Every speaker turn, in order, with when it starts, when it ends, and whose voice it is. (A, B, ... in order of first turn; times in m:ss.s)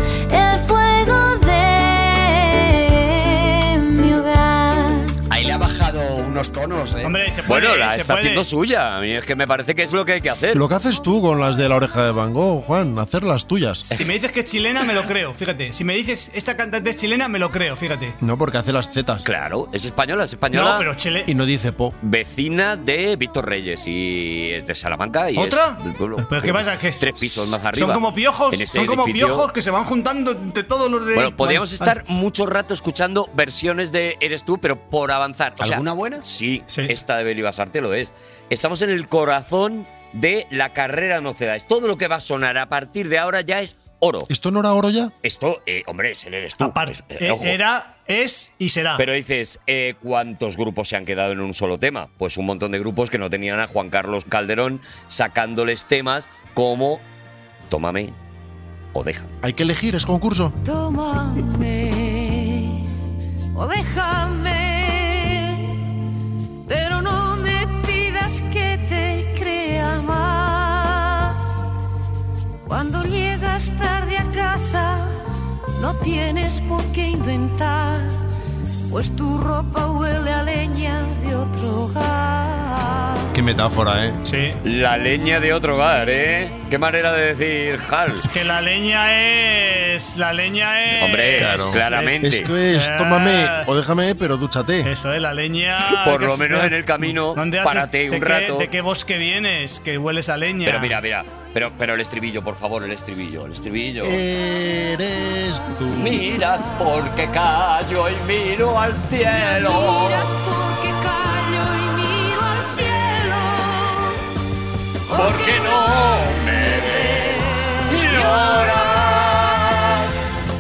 0:00.3-0:05.2 A
0:05.3-0:07.2 B
0:07.0-0:08.4 C
0:07.5-0:10.6 D
0:10.5-0:13.9 E
0:13.9-0:18.2 C
0:18.2-0:19.3 E
0:19.2-0:20.9 D
0:20.5-0:21.3 C
0:21.3-0:22.0 E
0:22.0-0:29.5 D
0:25.4-0:32.0 C
0:31.1-0:44.3 D
0:35.6-0:36.2 B
0:44.3-0:45.1 E
0:45.2-0:47.6 D
0:46.6-0:49.0 C
0:49.0-0:57.0 D
0:57.7-0:58.2 D
0:58.9-0:59.3 D
0:59.4-1:00.6 E
1:00.6-1:02.8 F
1:03.5-1:05.8 F
1:06.7-1:11.6 F
1:12.7-1:15.2 F
1:15.8-1:18.2 F
1:18.9-1:23.3 F
1:23.3-1:24.2 E
1:24.2-1:24.6 C
1:24.6-1:28.3 D
1:28.2-1:33.7 C
1:31.0-1:32.5 D
1:31.4-1:34.9 E
1:34.8-1:41.0 C
1:35.9-1:38.7 D
1:40.6-1:44.2 D
1:44.0-1:46.2 E
1:45.9-1:50.3 D
1:49.3-1:54.2 F
1:55.1-1:59.4 F
1:55.1-2:00.2 D